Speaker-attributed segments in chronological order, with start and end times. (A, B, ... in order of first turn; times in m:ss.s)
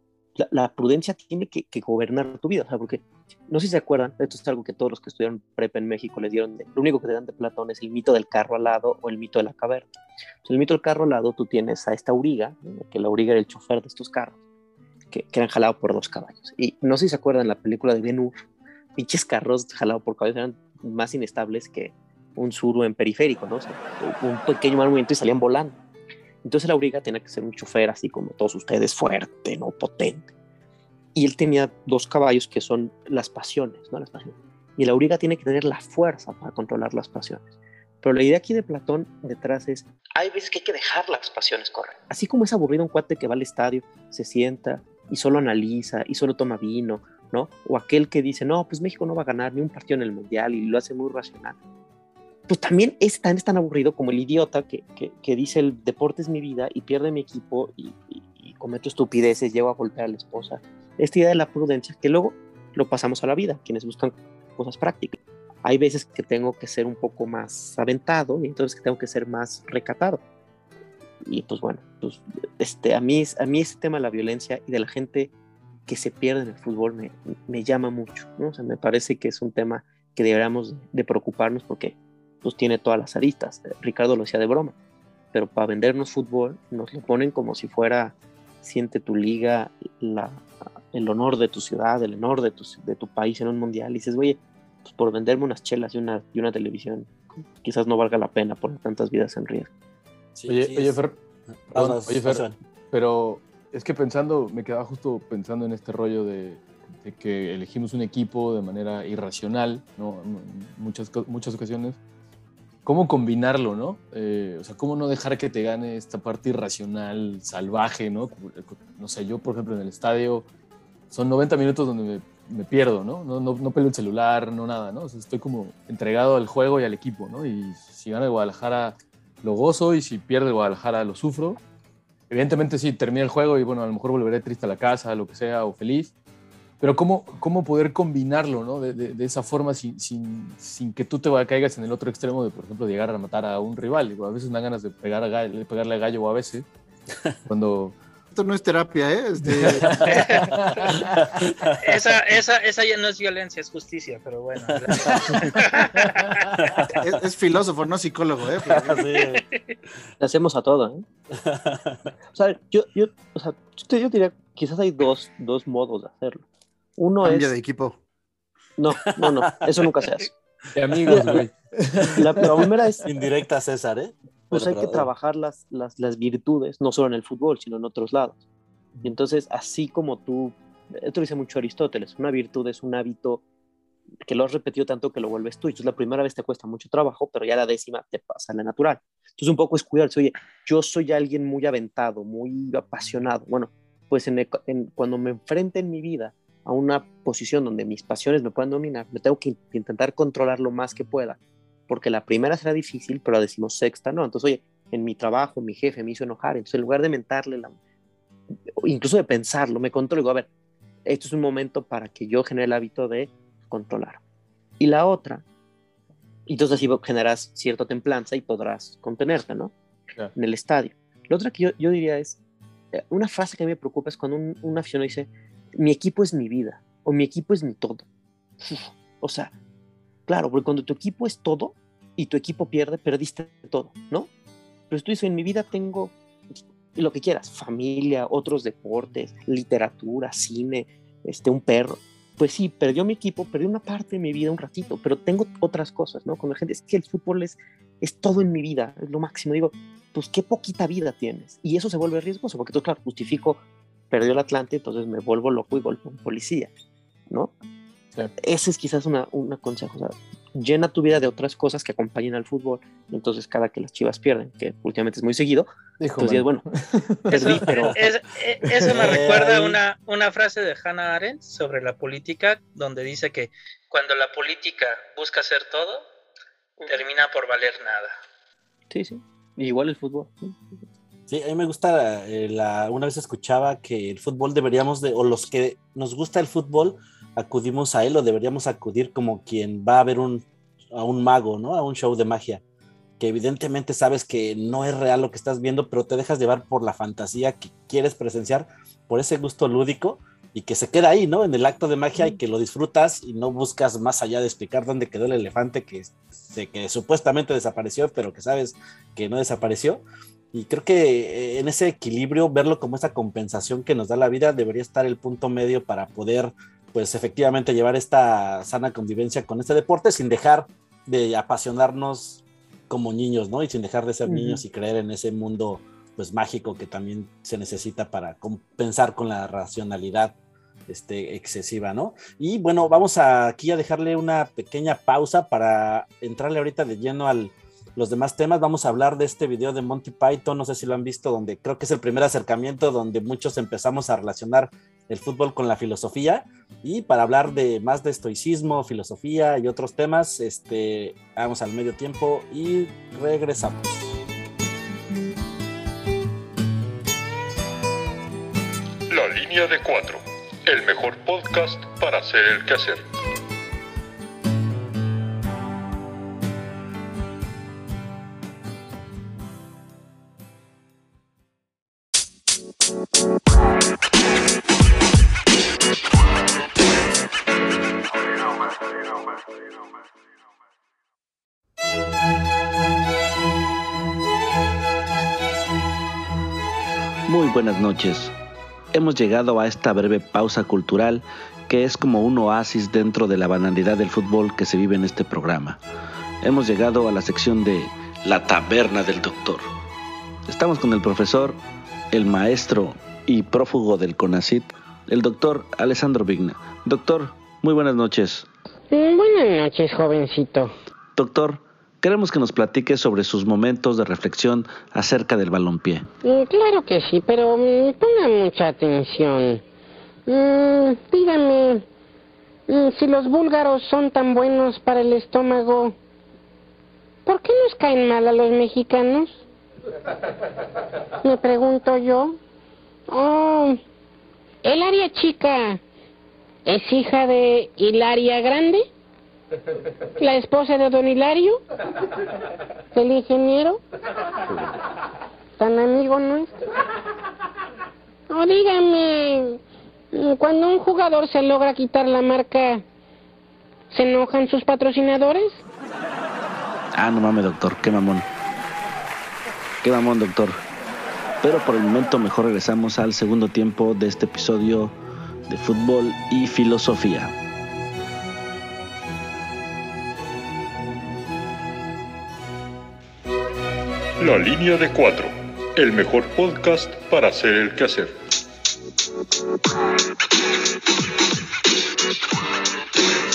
0:00.4-0:14.4 A
0:15.1-0:18.4 A
0:19.0-0:25.8 A
0:26.4-0:30.3 A
0:31.1-0:37.4 A
0:38.0-0:51.6 A
0:52.5-1:10.2 A
1:11.2-1:15.3 A
1:15.9-1:24.7 A
1:25.3-1:39.7 A
1:40.4-1:41.0 B
1:40.5-1:41.2 C
1:41.7-1:42.6 B
1:41.7-1:52.0 C
1:52.8-2:00.5 C
2:01.1-2:11.6 C
2:12.3-2:16.1 C
2:16.8-2:26.6 C
2:27.5-2:27.9 C
2:28.3-2:30.1 D
2:29.5-2:30.0 C
2:30.0-2:31.8 B
2:30.5-2:31.0 C
2:31.8-2:36.4 E
2:34.7-2:35.5 B
2:35.1-2:35.4 C
2:36.5-2:37.0 B
2:37.0-2:39.1 D
2:38.7-2:39.4 B
2:39.1-2:39.7 E
2:40.2-2:41.0 A
2:41.4-2:42.0 B
2:42.4-2:46.4 A
2:47.0-2:47.5 A
2:47.2-2:48.0 D
2:48.8-2:50.3 A
2:49.2-2:49.5 B
2:50.7-2:52.7 C
2:51.0-2:51.4 B
2:51.1-2:51.3 A
2:52.2-2:53.0 A
2:52.4-2:55.1 B
2:54.5-2:58.4 A
2:59.0-3:03.4 A
3:04.2-3:27.7 A
3:28.8-3:30.5 A
3:31.0-3:34.2 A
3:34.8-3:35.4 A
3:36.5-3:39.7 A
3:40.3-3:42.4 A
3:42.9-3:48.0 A
3:48.6-3:49.5 A
3:50.3-3:54.3 A
3:54.9-3:56.1 A
3:57.0-4:16.7 A
4:17.3-4:17.5 A
4:18.4-4:26.6 A
4:26.0-4:28.1 C
4:27.3-4:27.9 A
4:27.3-4:36.0 E
4:28.8-4:29.8 B
4:36.9-4:38.1 E
4:38.9-4:40.6 A
4:41.3-4:52.6 B
4:53.2-5:30.3 B
5:24.3-5:24.6 A
5:30.9-5:54.1 B
5:59.1-6:03.0 F
6:27.3-6:28.3 G
6:28.9-6:35.8 G
6:36.4-6:39.7 G
6:40.5-6:41.6 G
6:42.1-6:48.5 G
6:48.9-6:50.7 H
6:51.2-6:56.0 G
6:56.2-6:59.6 H
7:00.3-7:01.8 H
7:02.7-7:05.9 H
7:07.2-7:09.4 H
7:11.2-7:12.4 H
7:13.1-7:13.8 H
7:14.6-7:15.8 H
7:16.6-7:18.9 H
7:20.2-7:21.6 H
7:22.9-7:23.8 H
7:25.6-7:26.5 H
7:28.3-7:29.6 H
7:30.1-7:32.8 H
7:33.9-7:35.6 H
7:36.9-7:38.2 G
7:39.8-7:40.6 G
7:41.4-7:44.9 G
7:45.5-7:47.3 G
7:54.2-7:58.1 F